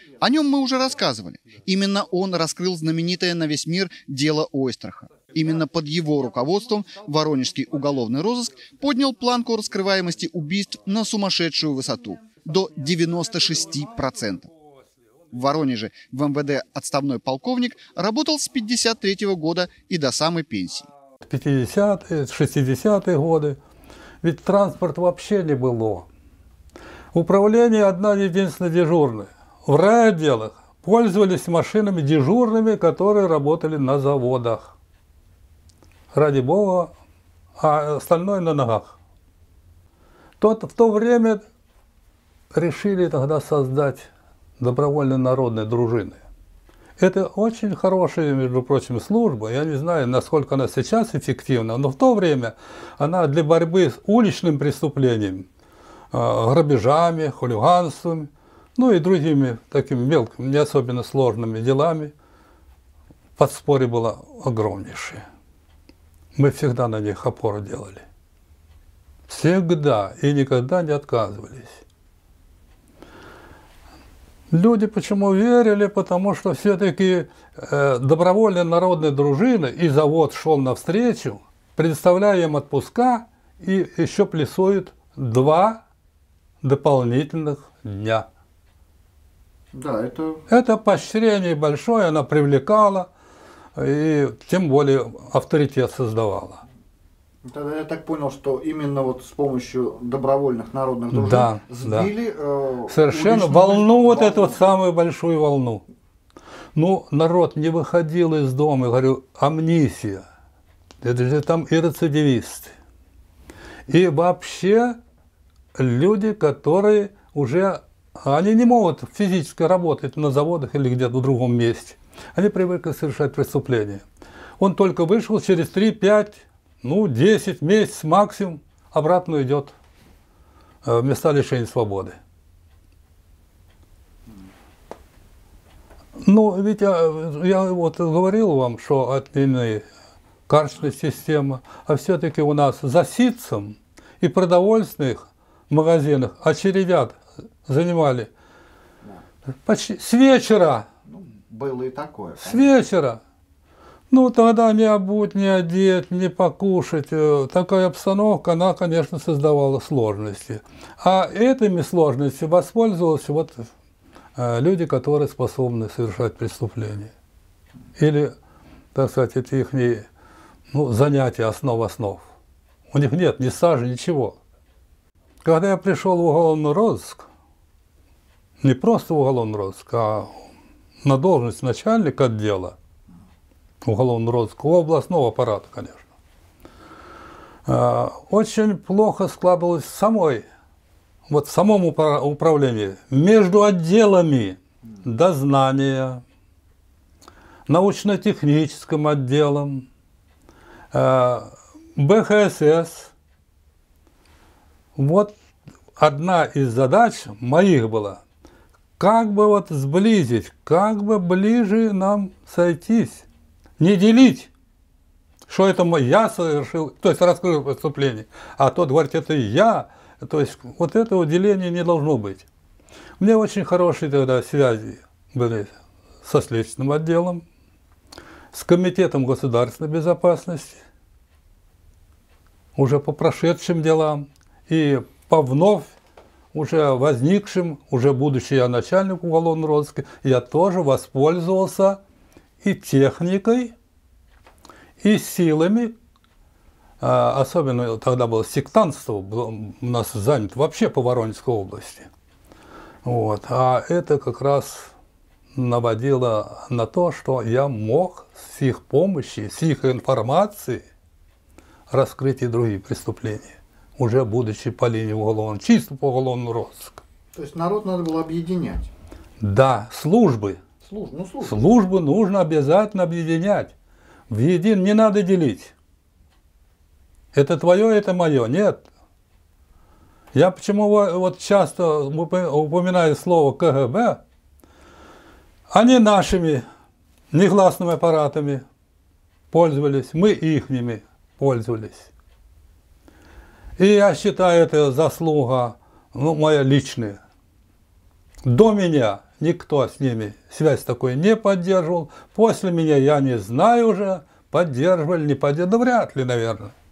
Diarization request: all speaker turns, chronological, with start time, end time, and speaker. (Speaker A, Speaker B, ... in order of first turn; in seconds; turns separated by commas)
Speaker A: 0.2-14.5, Speaker A: 15.3-20.9, Speaker B: 21.2-23.6, Speaker B: 24.2-26.1, Speaker B: 27.1-34.8, Speaker B: 36.1-36.9, Speaker B: 37.6-39.0, Speaker B: 40.4-41.4, Speaker B: 42.5-46.2, Speaker B: 47.0-55.5, Speaker B: 56.1-62.1, Speaker B: 63.4-65.2, Speaker B: 66.3-68.0, Speaker B: 69.3-71.8, Speaker B: 74.5-85.8, Speaker B: 86.6-88.3, Speaker A: 89.7-90.4, Speaker B: 90.5-93.1, Speaker B: 93.7-96.6, Speaker A: 97.4-104.6, Speaker B: 101.1-102.1, Speaker B: 102.9-105.8, Speaker B: 106.7-110.2, Speaker B: 111.0-112.7, Speaker B: 113.9-115.0, Speaker B: 115.7-124.0, Speaker B: 124.6-129.7, Speaker B: 130.8-132.2, Speaker B: 136.2-139.8, Speaker B: 140.5-148.3, Speaker B: 149.6-150.8, Speaker A: 151.1-152.7, Speaker B: 152.4-153.2, Speaker B: 154.1-163.7, Speaker B: 164.3-167.1, Speaker B: 168.0-168.3, Speaker B: 168.9-170.1, Speaker B: 170.7-172.3, Speaker B: 172.9-174.4, Speaker B: 175.4-177.2, Speaker B: 178.6-180.5, Speaker B: 181.0-182.8, Speaker B: 183.8-186.1, Speaker B: 187.7-190.4, Speaker B: 191.3-196.2, Speaker B: 197.7-199.9, Speaker B: 200.9-203.1, Speaker B: 204.9-205.3, Speaker B: 206.0-208.2, Speaker B: 209.0-213.2, Speaker B: 213.8-214.5, Speaker B: 215.5-222.4, Speaker B: 223.2-225.7, Speaker B: 226.2-227.4, Speaker B: 228.5-230.8, Speaker B: 232.7-235.9, Speaker B: 236.5-242.0, Speaker B: 242.6-243.7, Speaker B: 245.0-245.9, Speaker B: 247.0-252.1, Speaker B: 253.0-254.9, Speaker B: 255.5-260.8, Speaker B: 261.9-267.0, Speaker A: 267.3-268.9, Speaker B: 269.4-270.6, Speaker A: 270.8-271.5, Speaker B: 271.4-273.7, Speaker B: 274.3-275.7, Speaker B: 277.3-278.9, Speaker B: 280.3-284.2, Speaker B: 285.7-286.6, Speaker B: 287.3-288.6, Speaker B: 289.5-292.1, Speaker B: 293.8-297.2, Speaker B: 298.4-306.7